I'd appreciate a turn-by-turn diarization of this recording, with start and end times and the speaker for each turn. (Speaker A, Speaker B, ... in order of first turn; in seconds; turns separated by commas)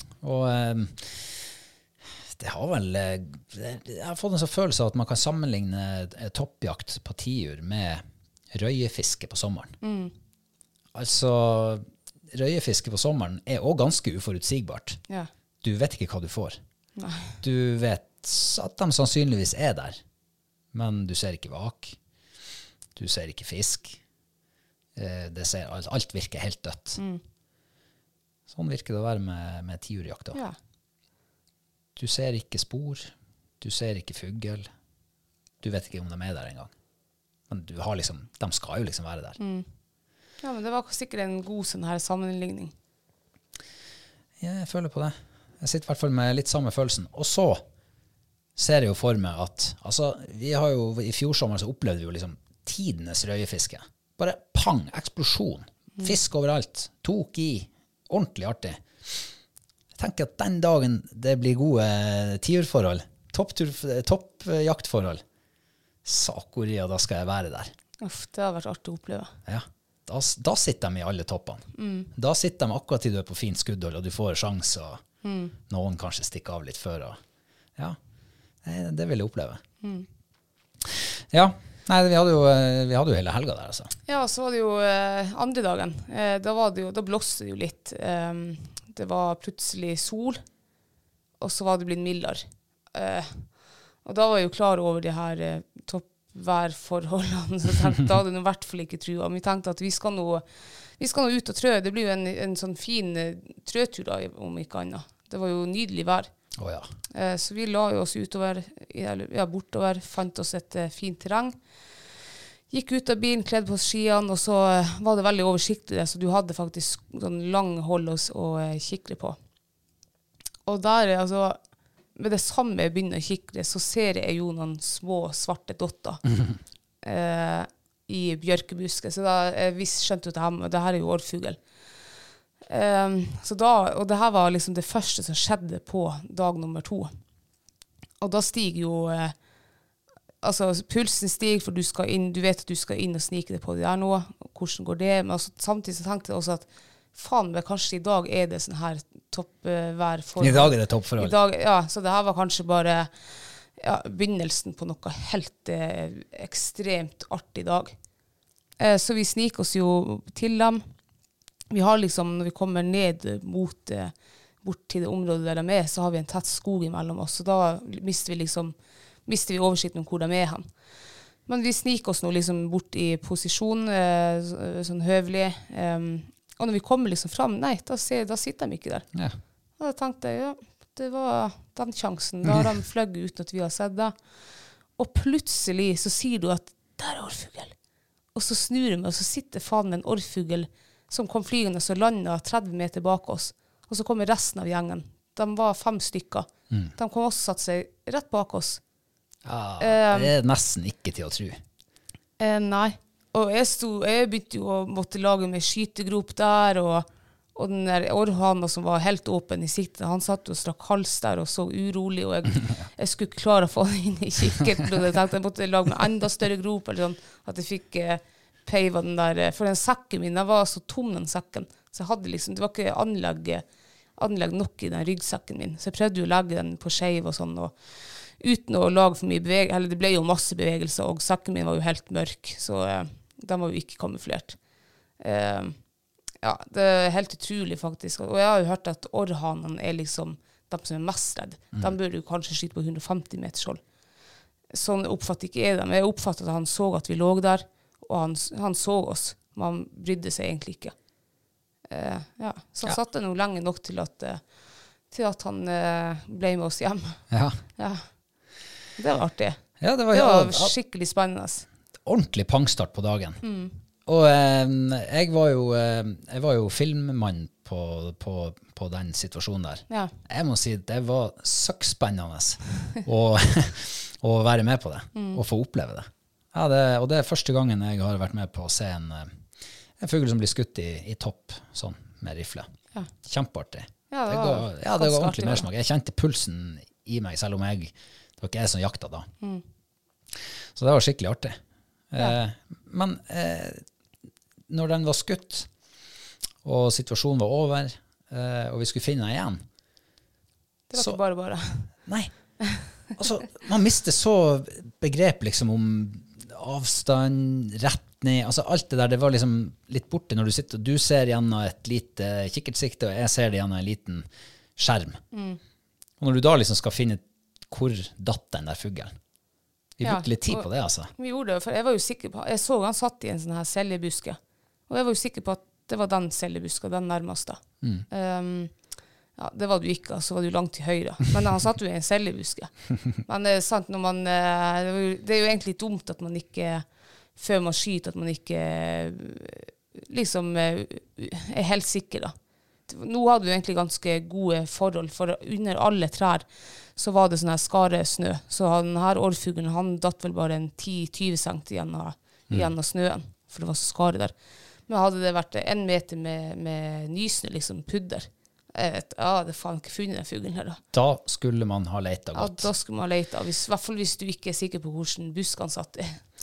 Speaker A: 0.2-1.5, Speaker A: 2.3-9.8, Speaker B: 9.8-10.1, Speaker A: 10.9-15.0, Speaker A: 15.6-16.6, Speaker B: 17.0-17.4, Speaker A: 17.4-20.0, Speaker A: 20.7-22.0, Speaker A: 23.0-24.0, Speaker A: 25.0-27.0, Speaker B: 27.0-27.2, Speaker A: 28.5-30.4, Speaker A: 32.0-34.7, Speaker A: 35.6-36.7, Speaker A: 37.5-39.4, Speaker B: 39.4-39.6, Speaker B: 40.4-42.7, Speaker A: 44.4-47.6, Speaker A: 48.6-59.3, Speaker A: 60.0-65.2, Speaker A: 66.0-67.7, Speaker B: 68.0-69.3, Speaker A: 69.5-75.0, Speaker B: 71.8-72.1, Speaker B: 75.2-75.5, Speaker A: 75.7-77.2, Speaker A: 78.6-79.6, Speaker B: 79.8-80.1, Speaker A: 80.8-83.9, Speaker B: 84.1-90.4, Speaker B: 91.4-93.4, Speaker B: 94.0-100.4, Speaker B: 101.0-106.3, Speaker A: 106.6-106.9, Speaker B: 107.1-111.6, Speaker B: 112.7-119.4, Speaker B: 120.7-121.6, Speaker B: 122.2-126.2, Speaker B: 127.0-131.6, Speaker B: 132.7-137.1, Speaker B: 138.2-139.3, Speaker B: 140.4-153.1, Speaker A: 150.4-151.4, Speaker B: 153.8-157.9, Speaker B: 158.8-160.8, Speaker B: 161.7-168.7, Speaker B: 169.3-170.7, Speaker B: 171.5-179.1, Speaker B: 179.8-184.2, Speaker B: 185.0-187.7, Speaker B: 188.3-198.8, Speaker A: 199.4-201.6, Speaker B: 199.8-200.3, Speaker B: 202.4-223.7, Speaker B: 224.2-234.6, Speaker B: 235.2-235.8, Speaker B: 236.4-243.8, Speaker B: 244.7-250.9, Speaker B: 251.9-254.4, Speaker B: 255.1-258.0, Speaker A: 257.3-257.6, Speaker B: 259.0-261.7, Speaker A: 259.8-260.8, Speaker A: 262.1-263.4, Speaker B: 263.4-263.8, Speaker A: 264.1-279.4, Speaker B: 275.1-275.4, Speaker A: 280.0-282.7, Speaker A: 283.2-289.3, Speaker B: 284.1-285.7, Speaker A: 290.8-291.6, Speaker A: 292.1-293.9, Speaker A: 294.7-295.7, Speaker A: 296.6-299.6, Speaker B: 300.9-301.9, Speaker A: 300.9-301.2, Speaker A: 301.8-302.3, Speaker A: 302.9-315.2, Speaker B: 315.3-315.6, Speaker A: 316.2-319.1, Speaker A: 320.0-321.1, Speaker B: 320.0-324.4, Speaker B: 324.9-328.8, Speaker B: 329.4-342.4, Speaker B: 342.9-354.3, Speaker B: 354.9-360.8, Speaker A: 360.9-362.7, Speaker B: 362.4-366.2